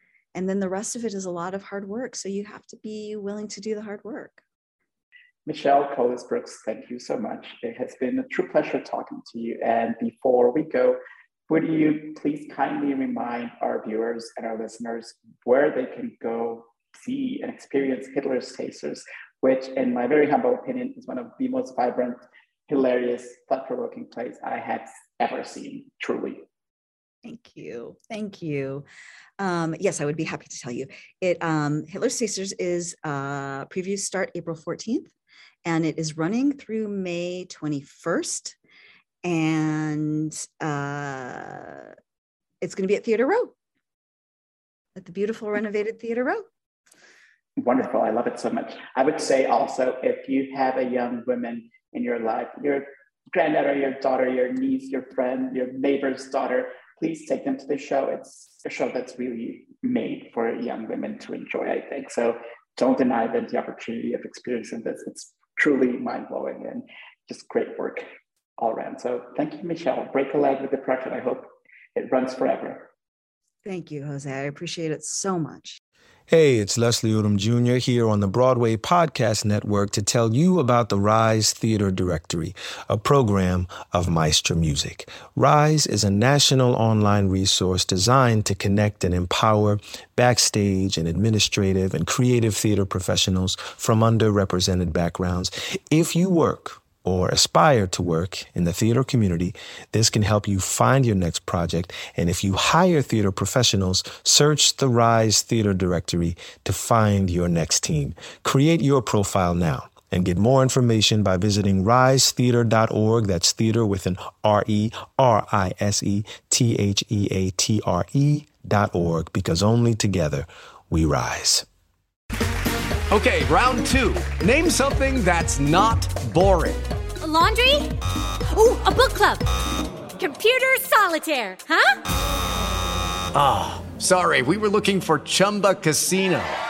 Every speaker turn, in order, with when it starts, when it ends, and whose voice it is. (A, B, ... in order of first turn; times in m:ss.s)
0:00.3-0:04.4 A
0:05.4-0:26.4 B
0:27.2-0:28.8 A
0:29.4-0:35.1 A
0:35.6-0:38.6 A
0:39.2-0:41.9 A
0:42.6-0:43.5 A
0:45.0-0:46.4 A
0:47.6-1:12.9 B
1:13.6-1:15.8 A
1:16.3-2:01.6 C
2:03.1-2:06.8 D
2:07.2-2:07.9 E
2:08.5-2:09.4 E
2:10.2-2:12.0 E
2:13.4-2:16.5 D